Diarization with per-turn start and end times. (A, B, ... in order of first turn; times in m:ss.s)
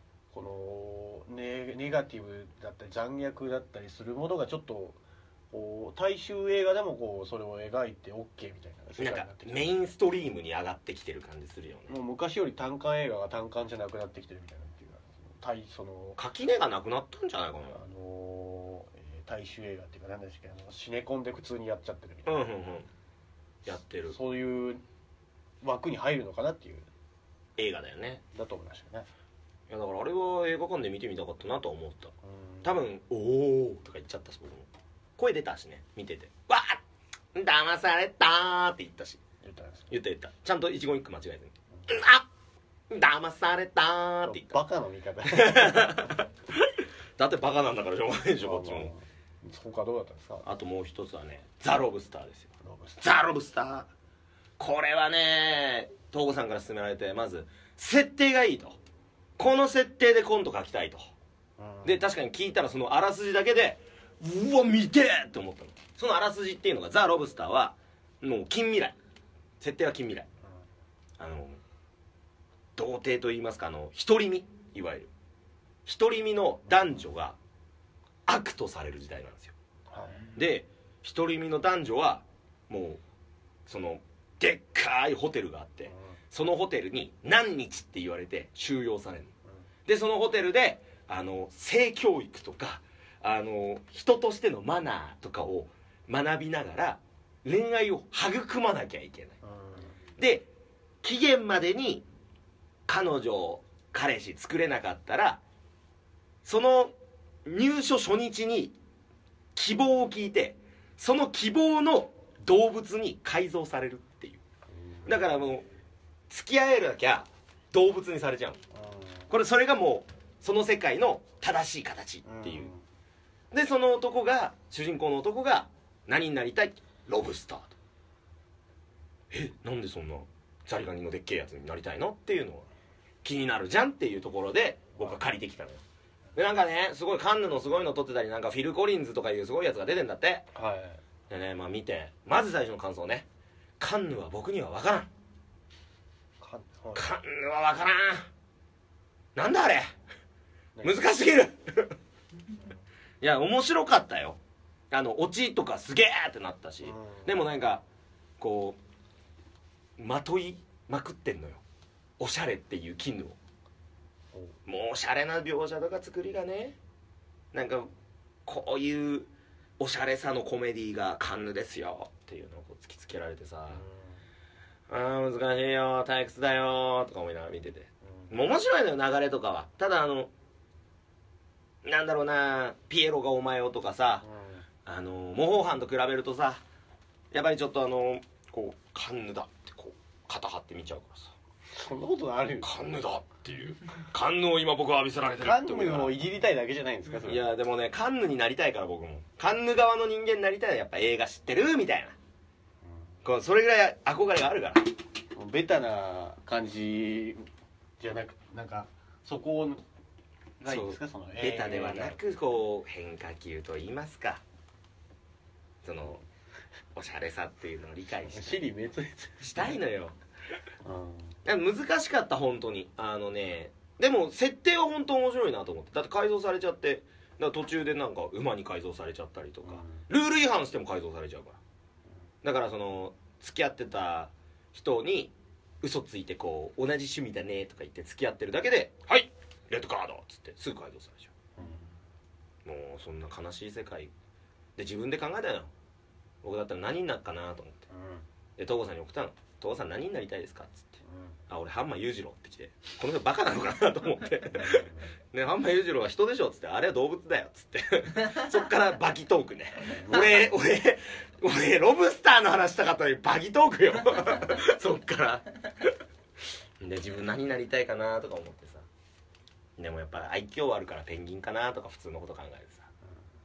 0:00.3-0:05.0 A
0:05.5-0:09.7 A
0:09.0-0:12.0 B
0:11.9-0:16.2 A
0:16.2-0:17.8 B
0:17.7-0:22.4 A
0:22.3-0:22.9 B
0:23.6-0:24.2 B
0:24.1-0:24.8 A
0:25.6-0:26.9 A
0:27.6-0:28.2 B
0:28.3-0:29.1 A
0:29.7-0:36.8 B
0:32.2-0:32.8 A
0:37.3-0:39.2 B
0:39.4-0:39.9 A
0:39.9-0:42.3 B
0:42.9-0:44.6 B
0:44.2-0:46.2 A
0:45.3-0:48.9 B
0:48.4-0:50.5 A
0:50.4-0:53.9 B
0:52.6-0:53.0 A
0:54.6-0:58.8 B
0:59.4-1:01.1 B
1:01.6-1:02.0 A
1:01.8-1:09.0 B
1:09.6-1:10.3 B
1:11.2-1:11.6 B
1:12.8-1:15.1 B
1:15.9-1:17.4 B
1:18.3-1:19.5 B
1:19.9-1:20.3 A
1:20.3-1:23.0 B
1:23.7-1:29.3 B
1:25.9-1:26.2 A
1:29.9-1:39.4 B
1:39.4-1:40.0 A
1:40.2-1:40.5 B
1:41.0-1:42.0 B
1:42.9-1:45.4 B
1:46.4-1:48.8 B
1:49.6-1:54.4 B
1:54.7-1:55.2 A
1:55.1-1:55.6 B
1:56.3-1:58.6 B
1:58.7-1:59.3 A
1:59.3-2:02.7 B
2:02.2-2:02.8 A
2:03.5-2:07.8 B
2:09.3-2:12.7 B
2:13.2-2:15.8 B
2:16.4-2:20.5 B
2:20.5-2:21.0 A
2:21.3-2:23.3 B
2:23.8-2:25.1 B
2:26.4-2:27.1 A
2:27.0-2:28.3 B
2:29.4-2:29.9 B
2:30.8-2:31.0 A
2:30.8-2:32.0 B
2:33.2-2:34.4 B
2:34.9-2:37.8 B
2:36.8-2:37.4 A
2:38.4-2:38.8 B
2:40.0-2:41.6 B
2:42.2-2:43.4 B
2:44.7-2:46.8 B
2:47.5-2:47.9 B
2:48.5-2:53.8 B
2:53.7-2:54.1 A
2:54.9-3:00.3 B
3:01.8-3:04.2 B
3:04.2-3:04.6 A
3:04.9-3:06.6 B
3:07.3-3:11.3 B
3:11.7-3:12.9 A
3:12.6-3:16.2 B
3:15.4-3:17.4 A
3:17.1-3:22.2 B
3:23.2-3:24.9 B
3:25.4-3:27.4 A
3:28.0-3:29.8 A
3:30.6-3:32.2 A
3:30.6-3:34.4 B
3:35.8-3:36.2 B
3:37.0-3:38.6 B
3:38.3-3:39.7 A
3:39.4-3:40.2 B
3:40.8-3:41.4 A
3:41.4-3:51.6 B
3:49.6-3:50.0 A
3:52.4-4:01.3 B
4:01.6-4:01.9 A
4:02.6-4:04.1 B
4:04.8-4:05.7 B
4:06.4-4:07.8 B
4:07.9-4:08.2 A
4:08.6-4:26.0 B
4:11.0-4:11.4 A
4:14.6-4:15.0 A
4:19.9-4:20.4 A
4:26.8-4:28.9 B
4:29.8-4:32.9 B